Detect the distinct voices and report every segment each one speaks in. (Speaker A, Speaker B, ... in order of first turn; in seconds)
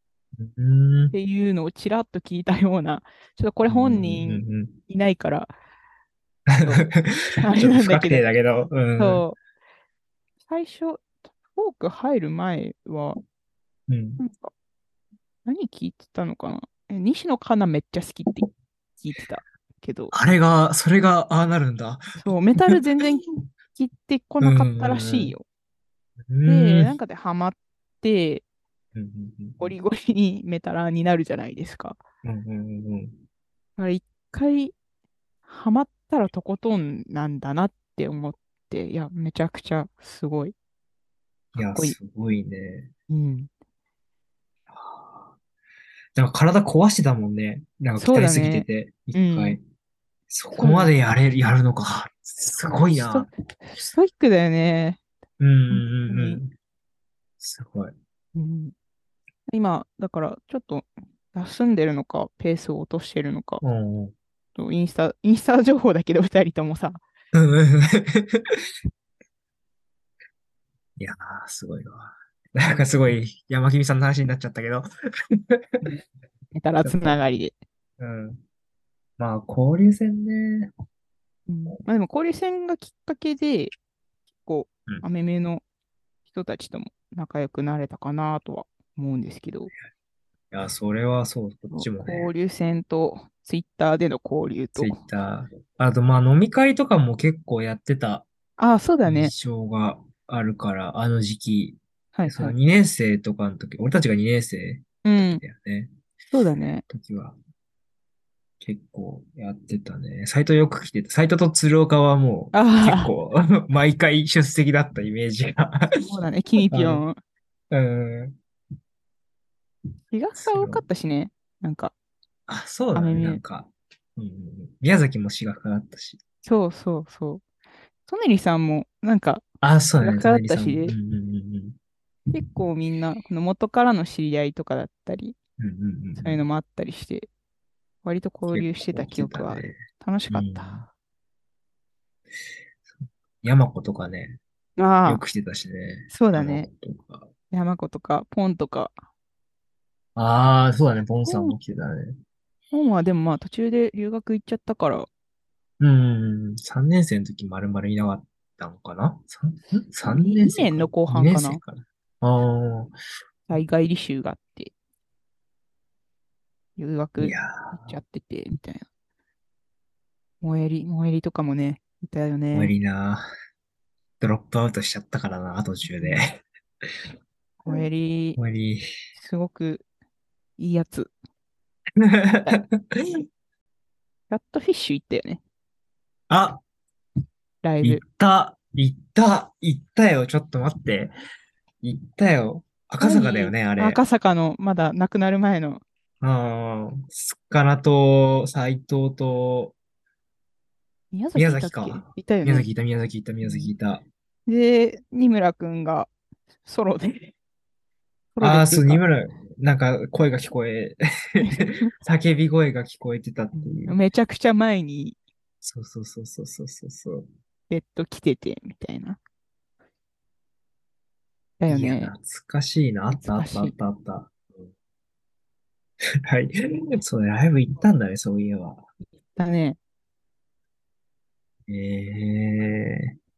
Speaker A: 0.4-1.1, 3.7-4.7, 6.5-9.2, 13.9-14.2, 20.1-22.8, 24.4-25.3, 26.3-26.9, 28.9-29.8, 32.2-33.2, 41.5-42.9, 44.7-45.3, 46.1-49.6, 50.3-53.3, 55.4-56.5, 57.4-57.9, 63.6-64.1, 67.3-68.6, 71.0-75.9, 76.8-77.2, 78.0-78.4, 79.2-80.7, 90.5-92.3, 94.8-98.3, 99.0-105.9, 106.9-107.4, 108.6-115.9, 116.7-117.0, 117.7-118.4, 120.3-120.8, 122.5-126.2, 129.6-131.8, 135.6-136.4, 138.5-139.8, 140.3-140.8, 142.9-144.4, 145.0-147.3, 150.2-152.2, 155.8-162.9, 167.2-167.9, 172.5-173.2, 174.2-176.4, 178.4-178.8, 182.1-183.0, 186.3-186.6, 187.8-191.1, 191.8-194.0, 196.2-199.8, 201.3-204.0, 208.4-214.0, 215.6-217.3, 221.7-224.3, 226.3-228.8, 231.7-233.1
Speaker B: 1.1-5.5, 6.6-8.3, 9.0-9.4, 10.5-13.2, 14.2-14.5, 15.4-20.1, 22.2-25.4, 26.4-28.4, 29.6-32.0, 33.8-34.7, 35.4-40.5, 41.5-42.0, 43.1-43.5, 48.0-49.6, 50.5-50.9, 52.6-55.0, 55.7-56.4, 58.3-58.7, 59.5-63.6, 64.5-67.0, 76.5-77.6, 81.5-83.7, 84.4-85.6, 86.3-89.7, 91.7-95.0, 98.6-99.3, 102.1-102.5, 105.0-105.4, 106.3-106.8, 112.5-113.1, 116.0-117.2, 120.1-121.9, 122.9-123.4, 126.4-127.4, 128.1-129.4, 130.0-130.9, 132.3-135.3, 136.2-137.3, 138.0-140.9, 144.8-145.2, 146.1-146.7, 147.5-148.9, 151.2-151.6, 152.7-155.1, 160.0-161.6, 163.5-164.7, 166.8-168.9, 170.4-172.7, 175.9-176.2, 177.6-178.4, 179.1-179.8, 180.6-181.1, 184.3-185.4, 187.6-188.0, 193.0-195.8, 201.1-202.7, 203.4-203.7, 204.5-206.1, 206.6-207.3, 208.3-209.0, 211.4-211.9, 213.5-215.2, 217.7-219.2, 221.6-222.1, 223.2-223.7, 229.3-229.8